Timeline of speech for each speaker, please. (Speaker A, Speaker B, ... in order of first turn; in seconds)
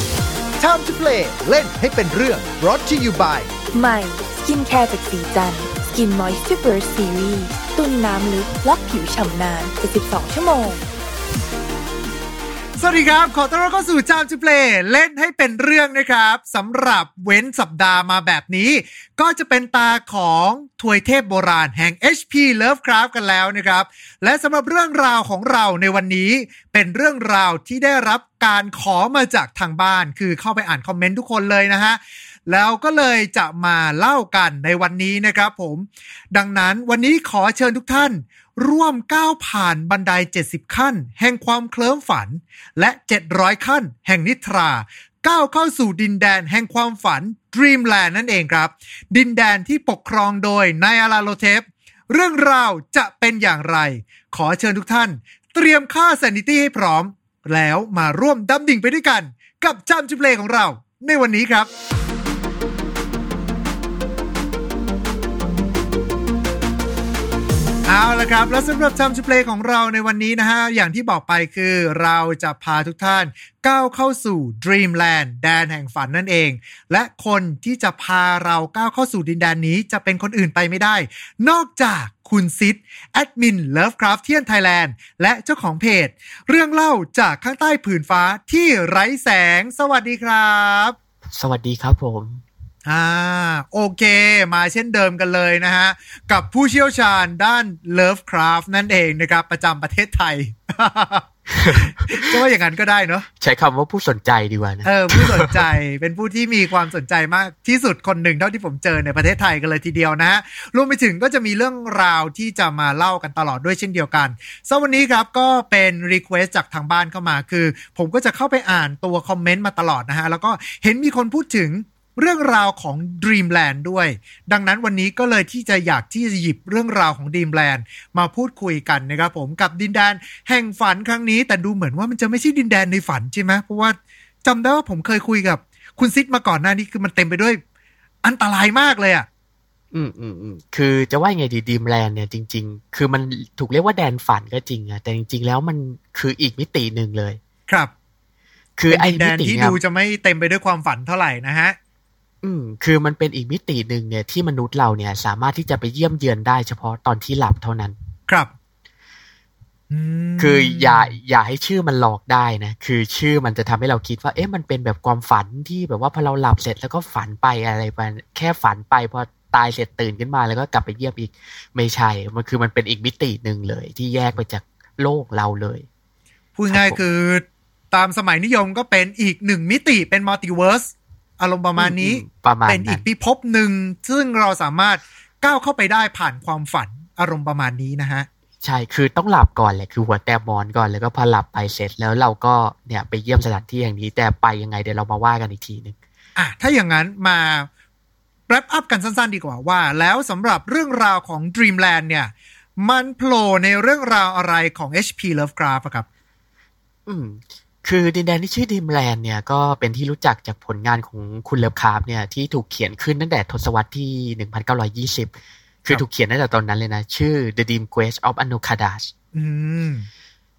Speaker A: 0.6-3.5
Speaker B: 3.7-10.8
Speaker C: 12.8-61.7, 67.9-91.0, 92.9-103.3, 104.8-137.6, 138.2-139.3, 148.9-151.8, 159.9-161.1, 176.6-188.3, 196.4-197.7, 198.5-206.1, 219.3-220.1
Speaker D: 91.3-92.4, 101.5-102.3, 103.4-105.6, 139.9-147.4, 148.8-149.8, 152.4-158.0, 160.4-175.8, 176.7-177.0, 181.8-183.0, 188.6-195.9, 207.1-215.3, 215.8-219.1